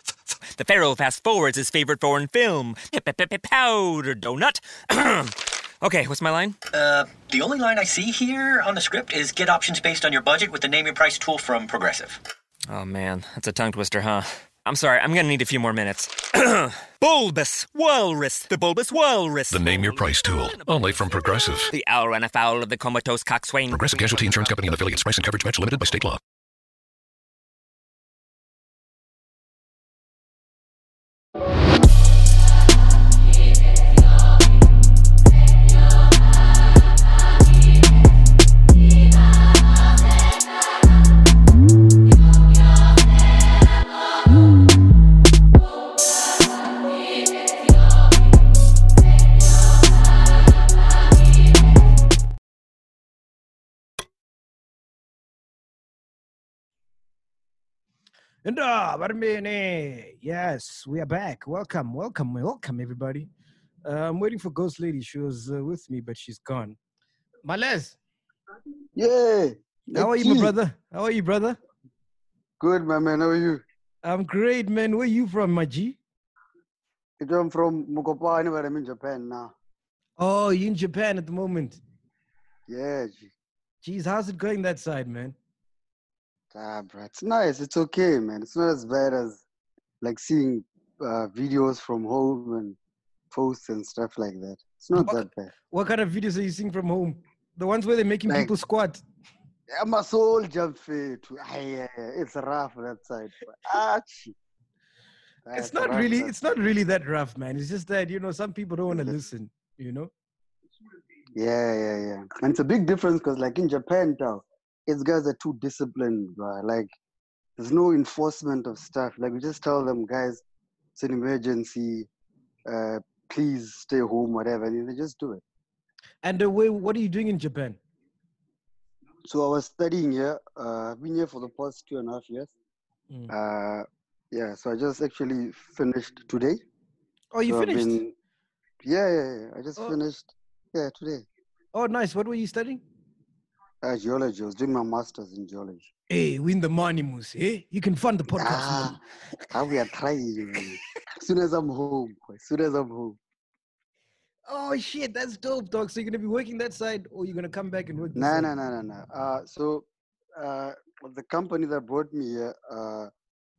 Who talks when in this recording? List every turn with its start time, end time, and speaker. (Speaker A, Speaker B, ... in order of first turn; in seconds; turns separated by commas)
Speaker A: 0.6-6.6, Speaker B: 6.7-12.2, Speaker A: 12.7-24.7, Speaker C: 19.4-21.8, Speaker C: 23.6-26.2, Speaker D: 58.4-63.3, Speaker D: 63.8-66.8, Speaker D: 67.4-68.0, Speaker E: 69.0-70.5, Speaker D: 70.0-71.6, Speaker E: 72.6-73.6, Speaker D: 74.0-76.0, Speaker E: 77.2-79.5, Speaker D: 80.2-81.8, Speaker E: 82.7-83.3, Speaker D: 83.8-85.3, Speaker E: 86.5-89.4, Speaker E: 90.0-92.8, Speaker E: 93.3-95.5, Speaker D: 95.0-99.0, Speaker E: 98.3-98.5, Speaker E: 99.7-104.3, Speaker E: 105.5-106.3, Speaker D: 105.5-110.1, Speaker E: 108.9-109.2, Speaker E: 111.3-116.9, Speaker E: 117.6-120.4, Speaker E: 121.0-122.1, Speaker E: 122.7-125.4, Speaker D: 126.2-127.8, Speaker E: 129.2-132.5, Speaker E: 133.3-136.6, Speaker D: 137.3-138.0, Speaker E: 137.4-138.1, Speaker E: 138.8-141.2, Speaker D: 141.7-142.8, Speaker E: 143.8-145.9, Speaker D: 146.1-149.0, Speaker E: 148.3-149.0, Speaker E: 149.5-153.2, Speaker D: 154.5-158.5, Speaker E: 158.2-159.8, Speaker E: 160.4-163.1